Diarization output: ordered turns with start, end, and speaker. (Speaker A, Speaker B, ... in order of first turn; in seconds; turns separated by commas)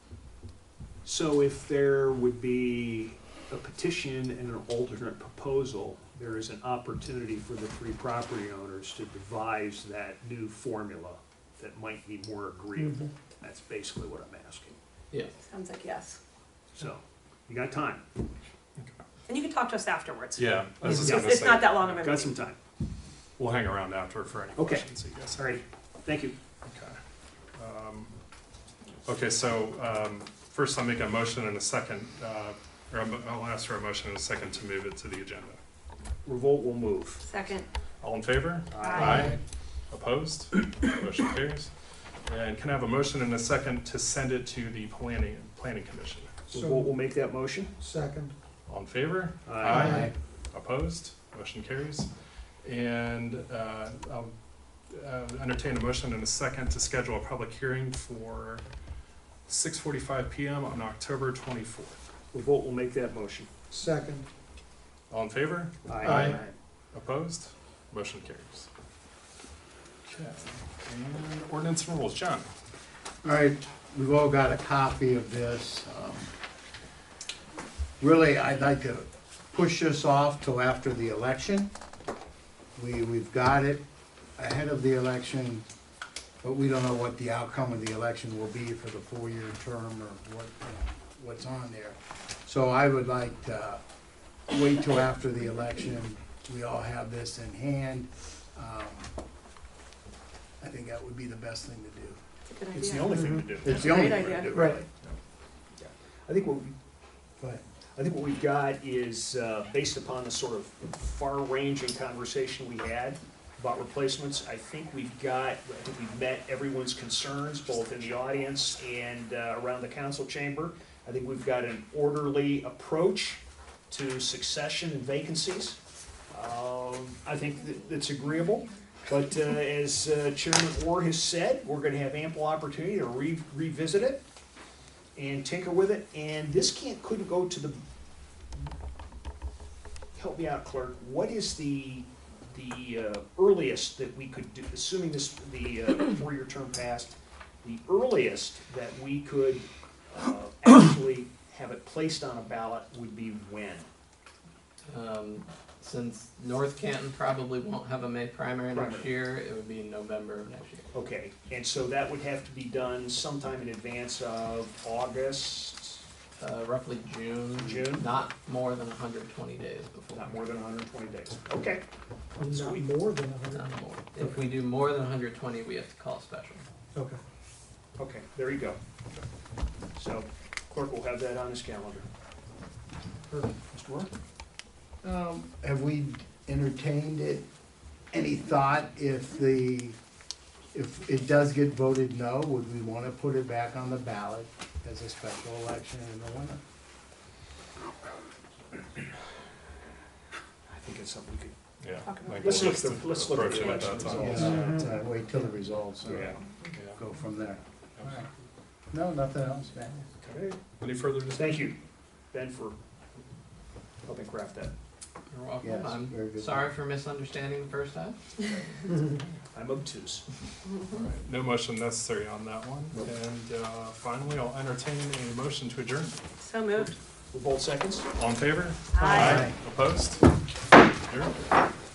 Speaker A: 1.0-14.8, Speaker B: 15.4-16.2, Speaker A: 16.7-18.0, Speaker B: 19.3-22.5, Speaker C: 20.4-21.9, Speaker A: 20.8-22.6, Speaker C: 23.4-25.5, Speaker A: 24.6-26.3, Speaker C: 26.6-27.0, Speaker C: 27.5-28.1, Speaker C: 29.0-35.6, Speaker A: 36.2-37.2, Speaker B: 37.2-37.6, Speaker C: 38.0-39.4, Speaker A: 38.7-39.3, Speaker B: 38.8-39.2, Speaker C: 39.9-41.7, Speaker C: 42.3-46.3, Speaker A: 46.5-47.7, Speaker D: 46.5-46.9, Speaker D: 47.8-48.3, Speaker C: 48.7-52.1, Speaker A: 49.4-49.9, Speaker E: 49.7-50.1, Speaker D: 49.8-50.0, Speaker C: 52.6-54.3, Speaker C: 54.9-58.6, Speaker C: 59.5-62.0, Speaker A: 62.3-63.5, Speaker D: 63.7-64.3, Speaker C: 65.1-68.7, Speaker A: 65.8-66.5, Speaker D: 66.1-66.3, Speaker C: 70.0-72.5, Speaker E: 73.2-76.3, Speaker E: 78.0-81.7, Speaker E: 82.8-83.8, Speaker E: 84.4-85.6, Speaker E: 86.4-93.8, Speaker E: 94.5-99.1, Speaker E: 100.6-102.2, Speaker B: 102.5-104.6, Speaker A: 102.7-104.8, Speaker E: 103.5-104.7, Speaker A: 105.8-106.7, Speaker A: 107.9-125.8, Speaker A: 126.3-134.2, Speaker A: 135.2-137.8, Speaker A: 140.1-153.9, Speaker F: 154.9-160.9, Speaker A: 158.7-159.1, Speaker A: 160.9-166.0, Speaker F: 166.4-170.4, Speaker A: 167.5-168.1, Speaker A: 170.1-171.8, Speaker D: 172.4-173.7, Speaker A: 172.4-172.9, Speaker F: 173.5-176.7, Speaker D: 174.2-174.5, Speaker D: 176.9-177.2, Speaker A: 178.0-178.8, Speaker A: 179.9-182.1, Speaker A: 183.7-184.1, Speaker E: 185.0-187.4, Speaker E: 188.1-190.0, Speaker E: 190.7-196.6, Speaker A: 200.7-201.5, Speaker C: 201.8-204.7, Speaker B: 202.1-202.8, Speaker A: 202.4-204.7, Speaker E: 204.1-206.4, Speaker A: 206.0-206.4, Speaker C: 206.7-207.0, Speaker E: 206.9-208.3, Speaker C: 208.0-208.3, Speaker E: 208.9-210.1, Speaker A: 210.2-210.6, Speaker C: 210.7-211.7, Speaker A: 211.3-211.7, Speaker A: 212.3-212.7, Speaker A: 214.0-214.7, Speaker F: 215.3-218.2, Speaker E: 215.6-216.7, Speaker A: 219.5-220.2, Speaker C: 220.9-226.1, Speaker B: 226.4-226.9, Speaker A: 227.3-228.1, Speaker C: 228.2-230.2, Speaker B: 228.9-229.4, Speaker E: 229.1-229.5, Speaker C: 231.1-231.3